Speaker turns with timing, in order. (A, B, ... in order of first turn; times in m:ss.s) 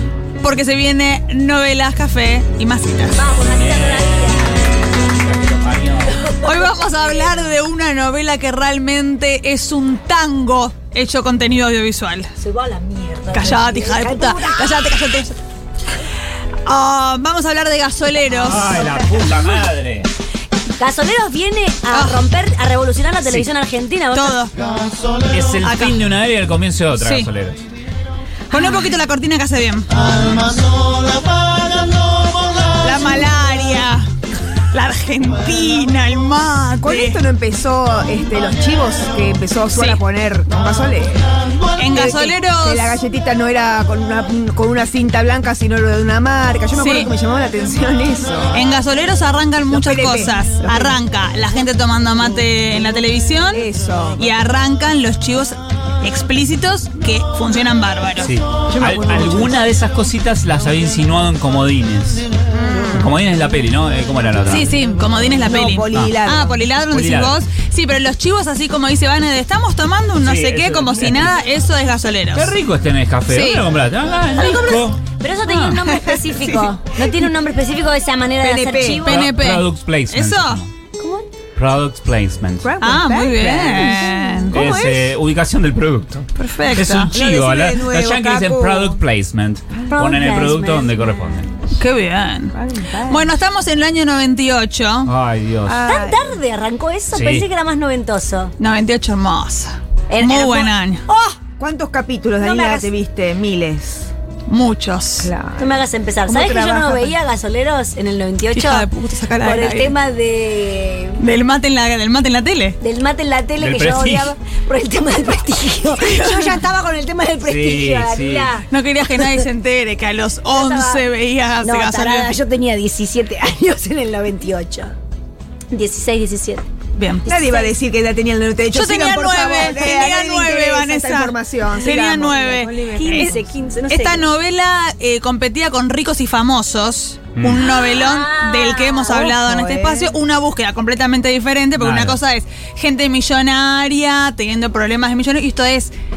0:00.4-0:03.2 A
0:03.2-0:04.6 B
0:03.6-0:04.2 C
0:05.1-0:06.2 C
0:06.1-0:07.1 B
0:06.4-0:12.3 A
0:12.4-0:14.9 B
0:13.3-0:15.4 A
0:16.7-0:18.8 A
0:18.3-0:20.1 C
0:20.8-0:24.4 B
0:21.9-0:22.2 A
0:24.1-0:24.5 A
0:25.3-0:27.6 C
0:25.6-0:26.1 A
0:27.0-0:27.3 A
0:28.5-0:29.9 A
0:32.8-0:34.1 A
0:34.7-0:37.2 A
0:36.8-0:41.3 D
0:39.7-0:40.0 A
0:41.8-0:42.9 A
0:41.9-0:48.6 D
0:46.8-0:47.1 A
0:48.5-0:58.4 A
0:49.7-0:51.0 D
0:53.5-0:54.2 D
0:58.2-1:02.2 C
0:58.7-0:59.6 D
1:02.9-1:04.7 C
1:04.5-1:12.5 A
1:05.5-1:06.6 D
1:05.9-1:06.2 C
1:06.9-1:07.4 C
1:10.2-1:11.3 C
1:12.3-1:15.8 C
1:13.3-1:13.7 A
1:14.3-1:19.2 B
1:16.1-1:16.7 D
1:18.4-1:19.1 D
1:18.8-1:20.7 C
1:19.0-1:20.6 A
1:21.0-1:21.3 B
1:21.6-1:22.8 C
1:22.6-1:25.1 D
1:22.8-1:24.6 A
1:24.5-1:31.6 C
1:26.4-1:27.1 A
1:27.1-1:29.0 D
1:29.9-1:30.9 B
1:31.8-1:35.1 A
1:32.5-1:33.3 D
1:35.1-1:35.9 C
1:35.6-1:36.3 D
1:35.8-1:38.5 B
1:37.1-1:37.4 C
1:38.6-1:41.0 A
1:40.1-1:41.4 B
1:41.6-1:44.1 D
1:42.4-1:42.9 B
1:44.5-1:45.3 A
1:45.2-1:47.1 D
1:45.6-1:48.9 B
1:48.5-1:49.9 A
1:49.4-1:51.2 B
1:51.2-1:52.8 A
1:52.8-1:58.7 B
1:53.6-1:54.3 C
1:57.4-1:58.5 C
1:58.7-2:02.4 A
2:00.5-2:01.0 B
2:01.6-2:04.9 B
2:05.7-2:06.6 B
2:06.9-2:07.3 A
2:07.2-2:07.7 B
2:07.3-2:13.4 D
2:08.7-2:25.9 A
2:12.9-2:14.3 B
2:17.4-2:17.7 C
2:17.8-2:19.2 B
2:19.1-2:20.2 D
2:21.8-2:22.2 C